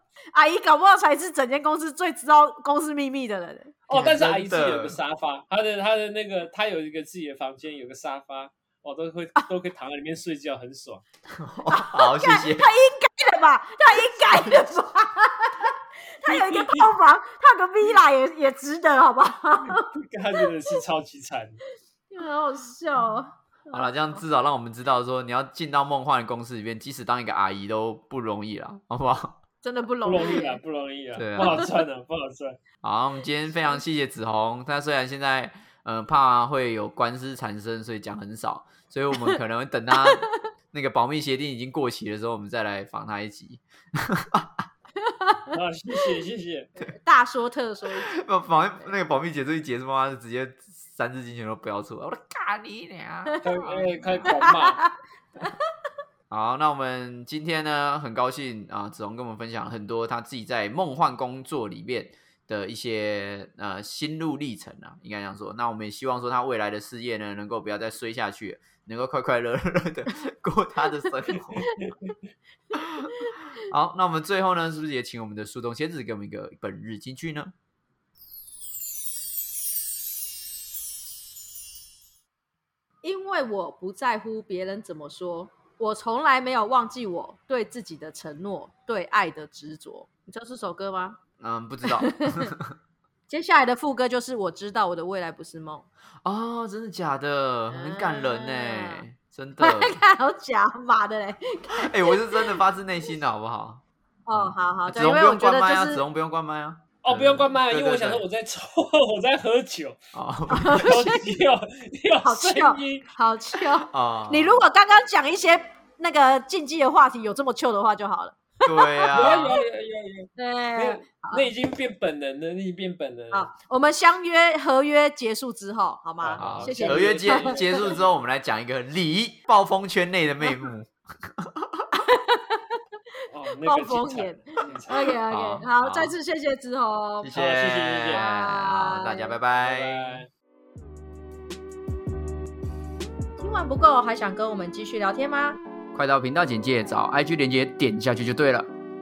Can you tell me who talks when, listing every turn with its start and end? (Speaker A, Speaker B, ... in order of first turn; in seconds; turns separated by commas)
Speaker A: 0.3-3.7, Speaker B: 3.9-11.0, Speaker C: 3.9-5.0, Speaker C: 11.3-12.7, Speaker A: 11.7-20.8, Speaker B: 16.3-16.9, Speaker B: 19.6-21.6, Speaker A: 22.1-24.2, Speaker C: 23.7-29.4, Speaker A: 29.6-30.6, Speaker B: 30.1-32.6, Speaker C: 31.2-31.7, Speaker A: 31.4-31.7, Speaker C: 32.8-44.7, Speaker A: 45.0-45.6, Speaker B: 45.5-46.7, Speaker A: 46.8-48.1, Speaker C: 48.0-54.4, Speaker A: 53.3-55.6, Speaker B: 53.4-54.8, Speaker C: 56.3-71.9, Speaker B: 71.8-72.1, Speaker C: 72.7-77.5, Speaker A: 83.0-91.2, Speaker C: 91.4-92.7, Speaker A: 91.9-92.5, Speaker A: 93.3-95.9, Speaker C: 96.2-100.0, Speaker A: 97.7-99.0, Speaker A: 99.6-102.6, Speaker C: 101.8-108.2, Speaker A: 104.3-106.0, Speaker B: 107.0-110.0, Speaker C: 110.1-111.1, Speaker A: 110.5-111.2, Speaker B: 110.7-113.1, Speaker A: 112.2-119.5, Speaker C: 113.9-114.6, Speaker C: 118.6-119.6, Speaker B: 119.1-123.5, Speaker A: 120.4-121.5, Speaker A: 123.3-128.0, Speaker B: 126.2-128.0, Speaker C: 126.4-131.9, Speaker A: 132.0-132.6, Speaker B: 133.3-135.2, Speaker A: 133.6-137.3, Speaker C: 135.3-136.2, Speaker C: 137.2-140.2, Speaker B: 137.3-138.2, Speaker A: 138.1-139.4, Speaker B: 139.6-140.3, Speaker A: 143.4-145.6, Speaker C: 145.9-148.7